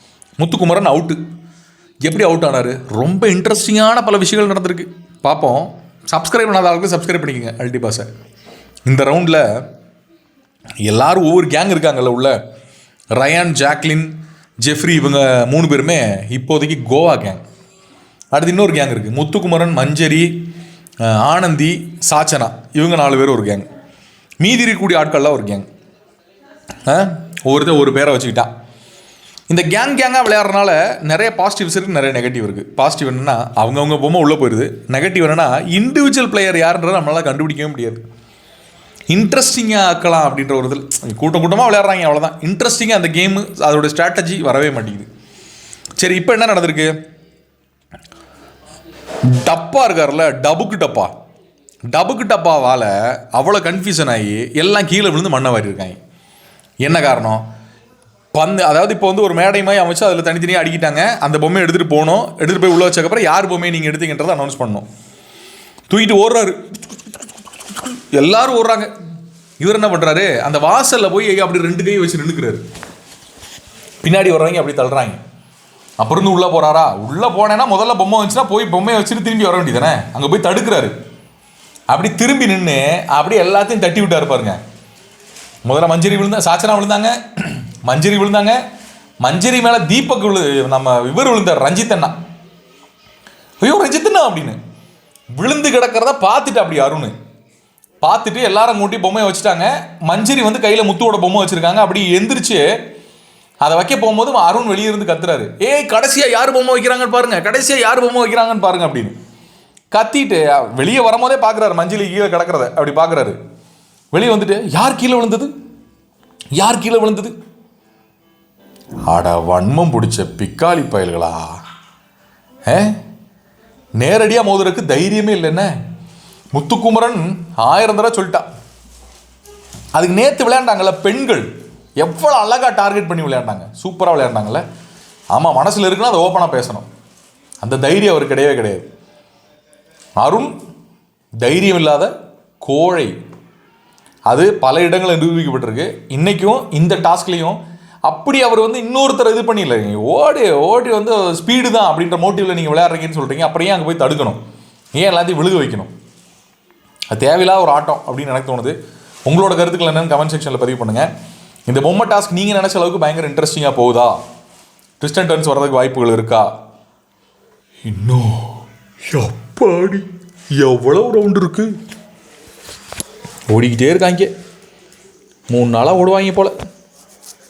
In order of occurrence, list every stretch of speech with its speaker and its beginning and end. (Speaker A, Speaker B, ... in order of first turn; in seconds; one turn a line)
Speaker A: 0.4-1.2
Speaker A: 2.0-8.1
Speaker A: 8.9-9.4
Speaker A: 10.8-12.4
Speaker A: 13.2-14.1
Speaker A: 14.6-17.4
Speaker A: 18.3-20.3
Speaker A: 21.0-23.7
Speaker A: 24.4-25.7
Speaker A: 26.9-28.5
Speaker A: 29.5-38.0
Speaker A: 39.1-45.1
Speaker A: 46.0-46.9
Speaker A: 49.3-51.1
Speaker A: 51.9-56.0
Speaker A: 56.8-57.4
Speaker A: 58.3-64.8
Speaker A: 65.9-66.8
Speaker A: 67.8-68.9
Speaker A: 69.6-72.6
Speaker A: 74.0-75.2
Speaker A: 76.0-80.9
Speaker A: 81.9-84.6
Speaker A: 85.7-88.6
Speaker A: 89.2-92.2
Speaker A: 93.6-94.6
Speaker A: 95.4-97.1
Speaker A: 98.0-102.6
Speaker A: 103.6-109.1
Speaker A: 109.9-113.4
Speaker A: 114.1-115.5
Speaker A: 116.6-117.3
Speaker A: 119.1-121.5
Speaker A: 122.7-123.0
Speaker A: 124.0-125.7
Speaker A: 126.5-128.4
Speaker A: 129.9-134.6
Speaker A: 135.3-136.9
Speaker A: 137.6-138.9
Speaker A: 140.2-140.5
Speaker A: 141.4-143.1
Speaker A: 144.3-154.4
Speaker A: 154.9-155.9
Speaker A: 157.1-161.1
Speaker A: 161.7-164.2
Speaker A: 165.0-166.5
Speaker A: 167.8-171.8
Speaker A: 173.5-174.3
Speaker A: 175.5-176.5